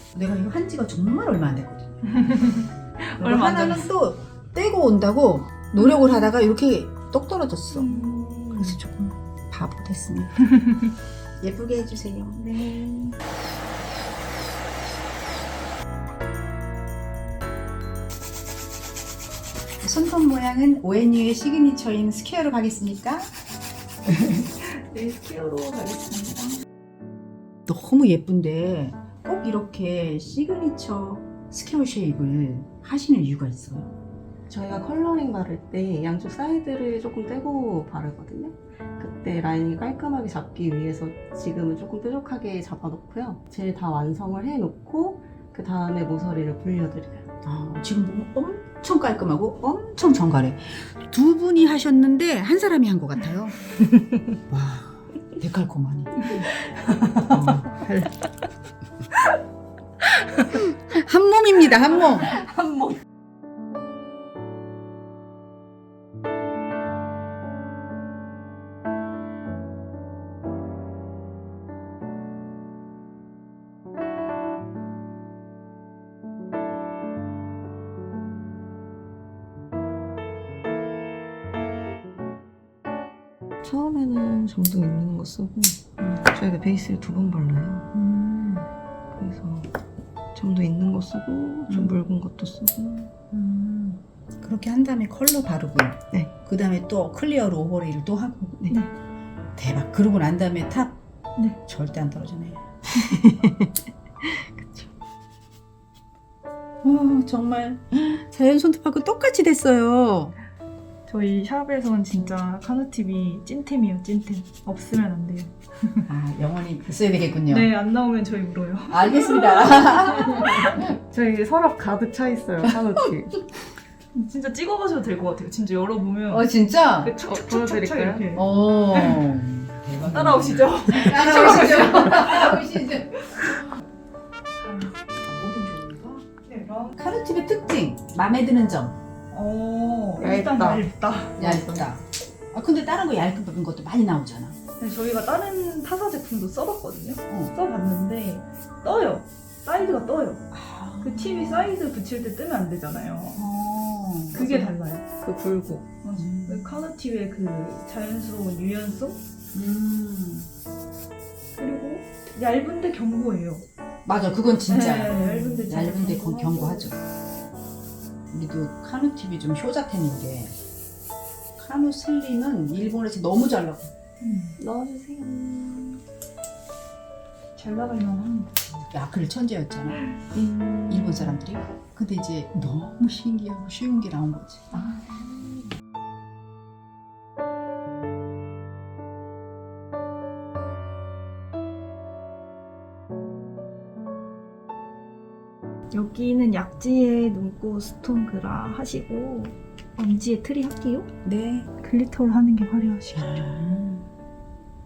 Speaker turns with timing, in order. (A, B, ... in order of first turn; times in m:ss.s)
0:00.1-0:02.0 A
0:02.1-0:03.9 B
0:03.2-0:10.4 A
0:07.7-0:08.4 B
0:08.0-0:08.8 C
0:11.4-0:12.8 A
0:12.7-0:13.1 C
0:19.8-0:23.3 A
0:24.6-0:26.6 B
0:27.6-0:33.9 A
0:34.5-0:47.3 C
0:47.4-0:53.6 A
0:54.5-0:56.4 A
0:56.4-0:57.4 C
0:57.2-0:58.1 A
1:00.4-1:02.4 A
1:02.0-1:03.0 C
1:23.6-1:27.9 C
1:27.9-1:28.7 A
1:29.1-1:29.7 C
1:30.3-1:33.1 C
1:31.7-1:31.9 A
1:33.3-1:38.8 A
1:39.6-1:41.0 A
1:41.6-1:44.8 A
1:46.8-1:50.3 A
1:51.0-1:56.0 B
1:56.1-1:57.7 A
1:57.5-2:00.8 B
1:58.9-2:00.8 A
2:01.0-2:03.4 C
2:04.1-2:06.5 B
2:06.3-2:07.2 A
2:07.0-2:09.3 B
2:07.2-2:08.3 C
2:08.3-2:13.1 A
2:10.0-2:13.7 B
2:14.6-2:14.9 B
2:15.2-2:16.2 A
2:16.4-2:16.9 B
2:16.9-2:19.0 A
2:19.3-2:21.4 B
2:20.2-2:20.8 C
2:21.4-2:21.9 C
2:21.4-2:24.6 A
2:24.8-2:30.4 B
2:27.3-2:27.5 A
2:30.5-2:31.7 A
2:31.0-2:33.5 B
2:33.4-2:34.7 A
2:34.3-2:35.0 B
2:35.2-2:35.9 C
2:36.0-2:39.2 B
2:36.2-2:36.7 A
2:39.5-2:40.5 A
2:41.6-2:43.6 B
2:44.0-2:47.0 A
2:44.7-2:46.9 B
2:48.3-2:50.5 A
2:51.6-2:53.9 A
2:54.2-2:54.6 B
2:54.6-2:56.0 C
2:57.6-2:58.5 B
2:58.8-3:00.1 A
3:00.3-3:01.4 C
3:00.9-3:04.7 A
3:04.7-3:05.2 B
3:15.9-3:21.1 B
3:21.2-3:21.7 A
3:21.8-3:23.5 B
3:23.1-3:24.1 A